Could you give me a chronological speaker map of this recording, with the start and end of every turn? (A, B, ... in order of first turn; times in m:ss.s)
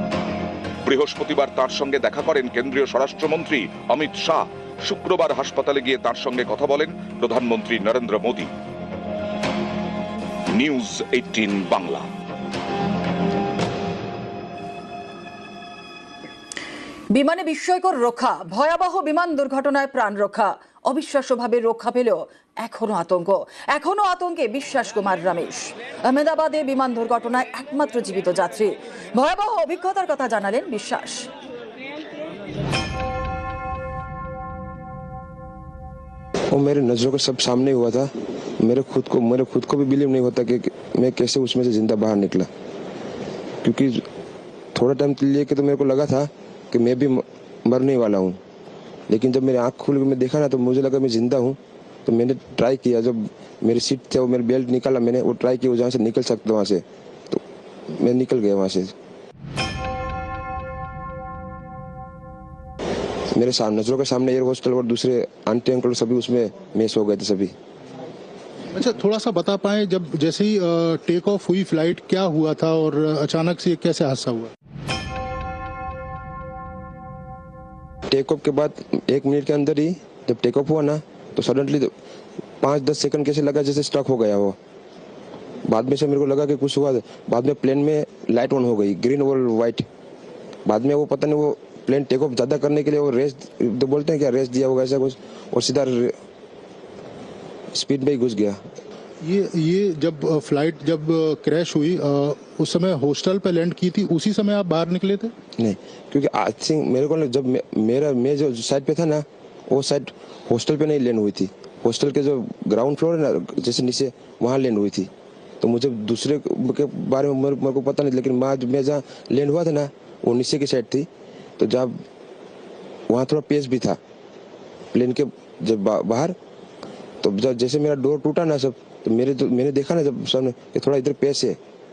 0:00.8-0:08.5 A
0:10.5-0:12.1 A
0:17.1-0:31.3 B
0:36.5-0:42.5 C
0:43.6-0:44.1 C
0:44.8-0:48.4 C
0:49.1-0:58.9 C
1:03.3-1:07.5 C
1:08.7-1:14.5 D
1:18.1-1:21.9 C
1:22.6-1:24.6 C
1:25.7-1:29.8 C
1:30.7-1:36.2 C
1:37.7-1:38.6 C
1:39.2-1:45.3 D
1:45.6-1:55.1 C
1:55.6-2:01.9 C
2:03.1-2:04.0 C
2:04.9-2:06.4 C
2:07.2-2:11.6 C